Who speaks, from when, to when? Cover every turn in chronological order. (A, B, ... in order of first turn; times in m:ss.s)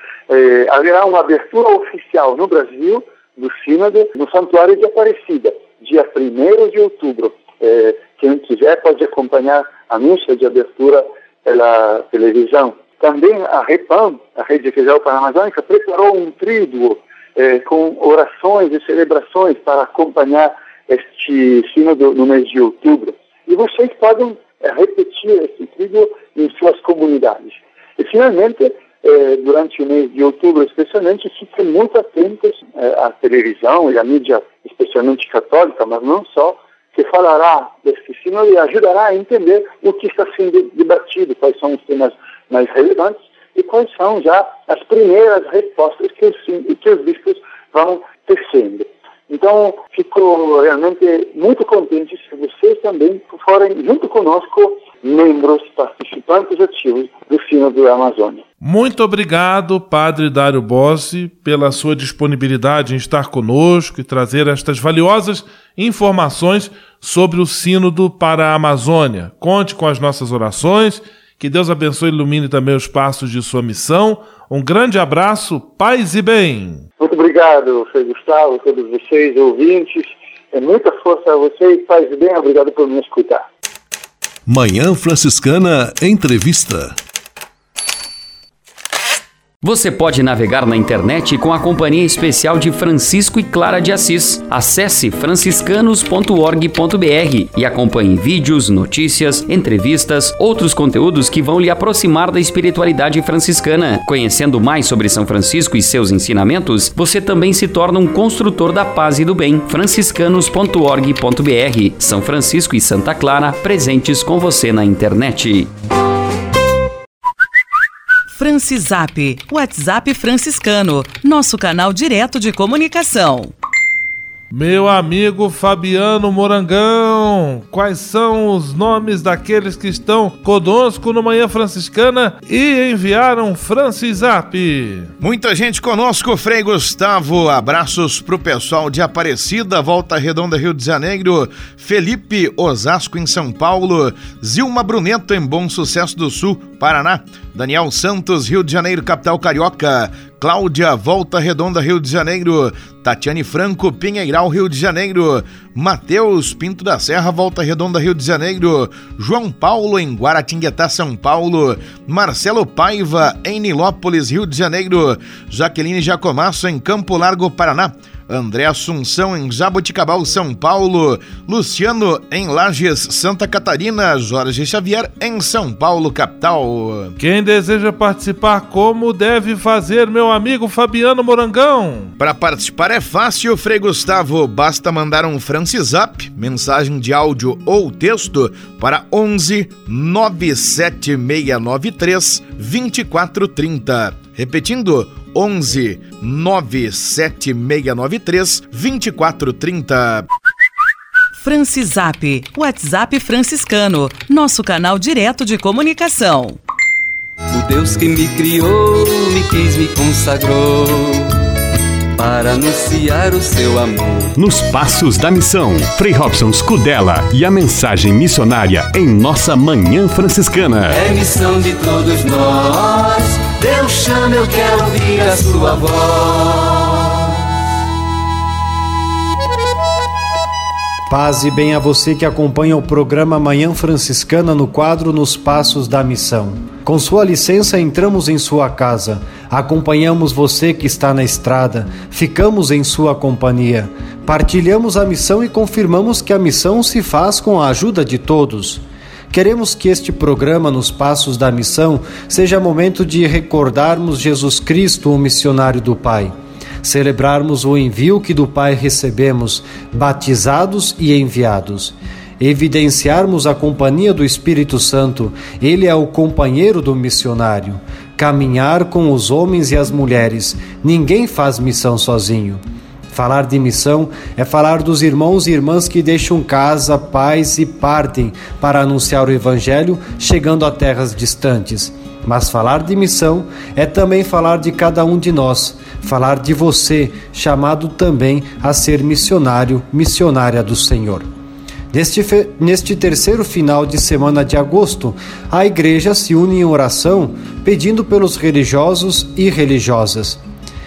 0:00.3-0:58.4 A
0:58.6-1:16.8 B
1:17.0-1:23.4 A
1:24.5-1:26.9 C
1:29.6-1:55.7 D
1:58.3-2:03.5 E
2:04.5-2:15.1 B
2:15.2-2:57.1 F
2:57.2-3:02.1 B
3:02.2-3:20.2 F
3:21.4-3:26.6 E
3:27.5-3:31.3 G
3:32.2-3:34.3 G
3:34.4-3:41.0 H
3:40.9-3:47.0 G
3:51.1-4:51.3 I
4:51.9-5:00.4 I